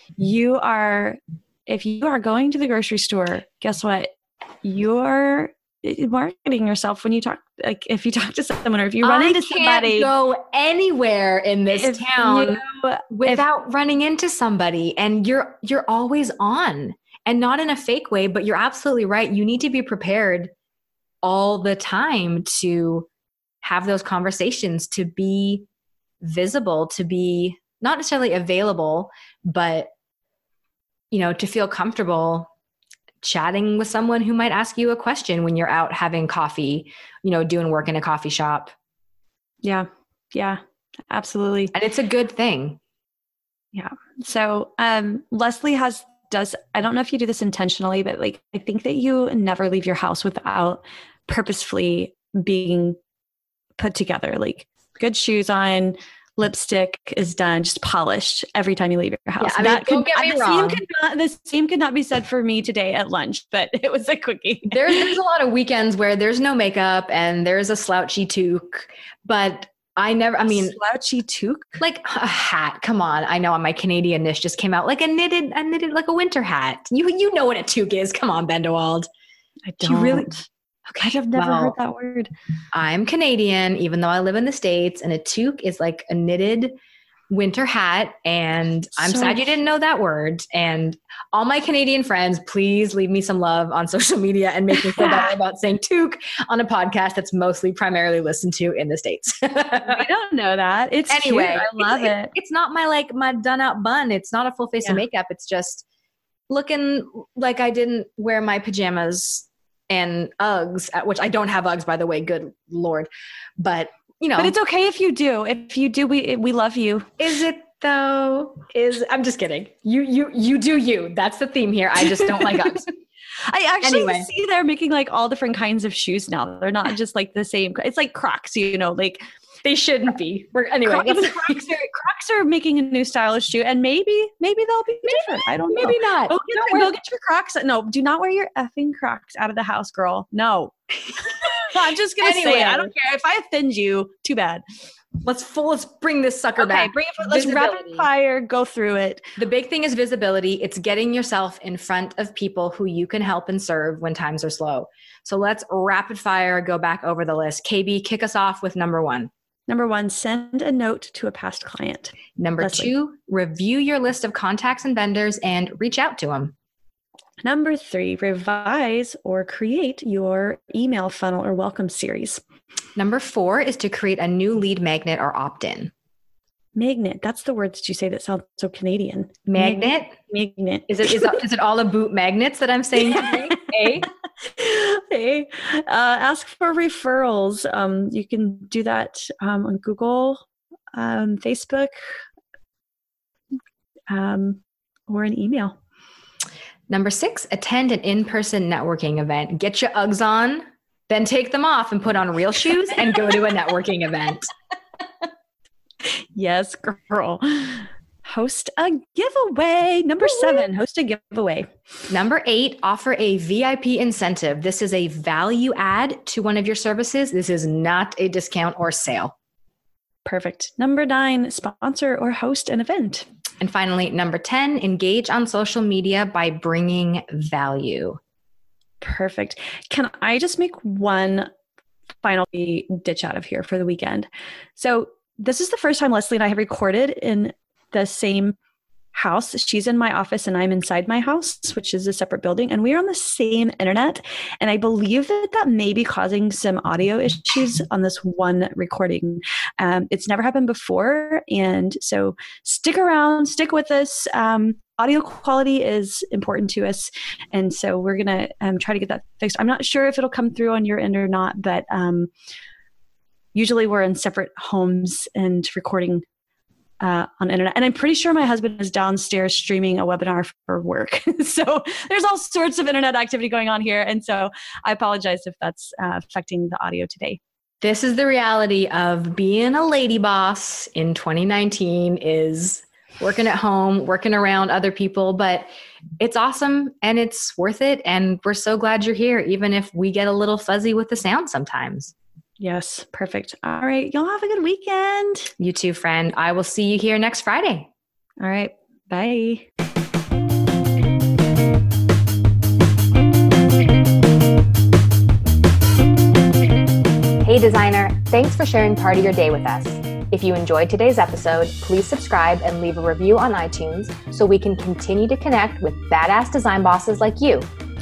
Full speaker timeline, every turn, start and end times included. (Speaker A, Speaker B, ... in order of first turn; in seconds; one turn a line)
Speaker A: 0.2-10.1
Speaker B: 9.0-20.5
Speaker A: 11.8-13.4
Speaker B: 21.2-23.1
Speaker B: 23.6-25.6
Speaker B: 26.2-29.9
Speaker B: 31.1-32.5
Speaker B: 33.2-38.7
Speaker A: 39.6-41.7
Speaker B: 41.7-42.8
Speaker A: 43.7-53.0
Speaker A: 53.8-65.1
Speaker B: 59.4-60.8
Speaker B: 64.7-70.8
Speaker A: 70.5-71.8
Speaker B: 71.8-79.1
Speaker A: 79.7-82.3
Speaker B: 79.8-80.3
Speaker B: 81.3-81.7
Speaker B: 82.7-86.7
Speaker B: 87.3-100.0
Speaker A: 89.0-89.5
Speaker A: 94.8-95.4
Speaker A: 99.8-102.3
Speaker B: 101.1-105.8
Speaker B: 106.5-114.5
Speaker A: 114.4-117.1
Speaker B: 117.2-122.9
Speaker A: 122.2-122.8
Speaker A: 123.5-129.2
Speaker B: 123.8-124.3
Speaker B: 129.6-131.7
Speaker A: 130.8-144.6
Speaker B: 135.1-136.9
Speaker B: 141.3-142.9
Speaker B: 145.2-148.1
Speaker A: 146.6-149.2
Speaker B: 149.4-159.3
Speaker A: 159.7-162.9
Speaker B: 162.4-166.5
Speaker A: 167.4-172.4
Speaker B: 172.9-175.9
Speaker A: 176.8-181.4
Speaker B: 179.5-180.2
Speaker B: 180.9-184.1
Speaker A: 183.0-191.9
Speaker A: 194.1-195.8
Speaker B: 196.9-204.5
Speaker A: 206.0-211.7
Speaker B: 212.1-219.3
Speaker A: 220.2-223.2
Speaker B: 223.6-228.2
Speaker A: 229.0-231.5
Speaker A: 232.2-238.6
Speaker A: 239.1-262.3
Speaker A: 263.5-266.2
Speaker A: 267.0-277.4
Speaker B: 277.8-292.1
Speaker A: 292.6-295.5
Speaker B: 295.6-297.9
Speaker A: 298.4-299.7
Speaker B: 307.4-317.7